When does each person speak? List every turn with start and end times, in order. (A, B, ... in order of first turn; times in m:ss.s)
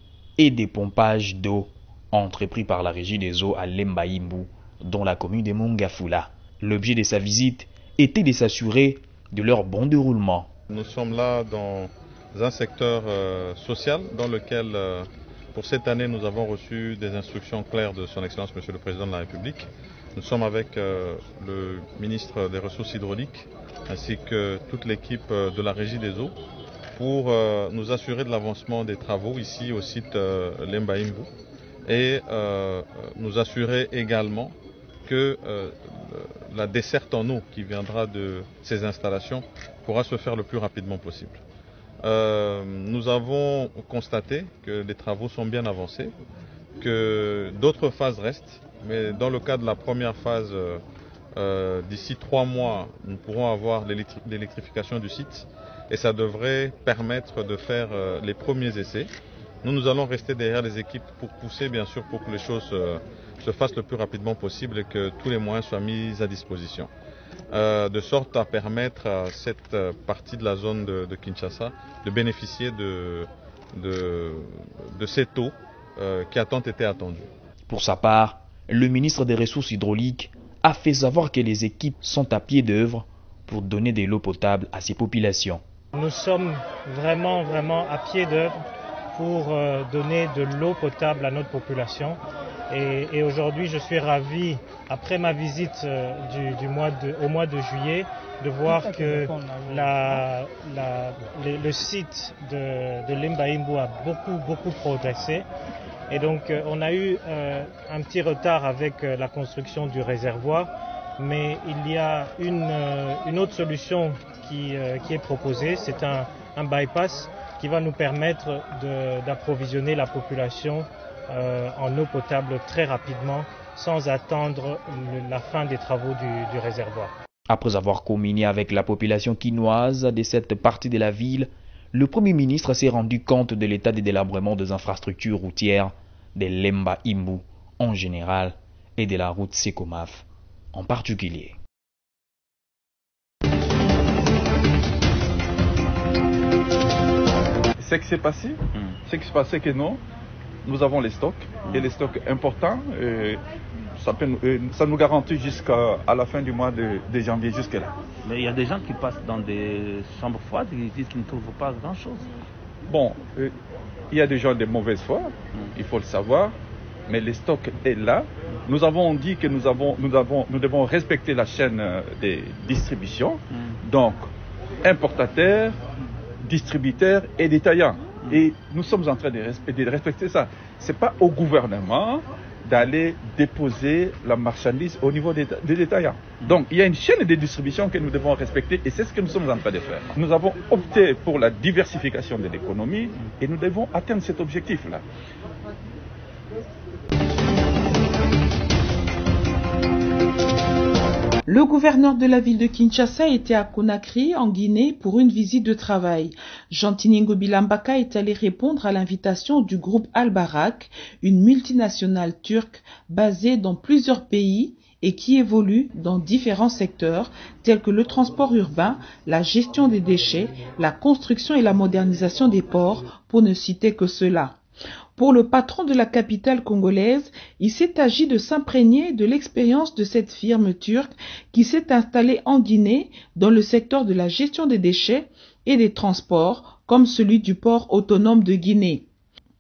0:00.4-0:10.5 A
0:10.7-0:26.4 B
0:26.9-0:31.3 B
0:31.9-0:41.4 B
0:42.0-0:46.1 B
0:46.8-0:50.8 B
0:51.4-0:59.1 B
0:59.6-1:06.9 B
1:07.5-1:17.3 B
1:17.7-1:25.6 A
1:25.9-1:28.6 C
1:29.1-1:32.2 C
1:32.7-1:45.5 C
1:46.1-2:07.1 C
2:07.5-2:21.6 A
2:27.8-2:30.0 D
2:30.6-2:33.4 D
2:34.0-2:37.9 D
2:38.2-2:42.3 E
2:42.9-2:43.5 D
2:44.1-2:46.6 D
2:47.1-2:54.2 D
2:54.8-2:55.8 D
2:56.4-3:15.0 D
3:21.5-3:44.6 F
3:45.2-3:59.1 F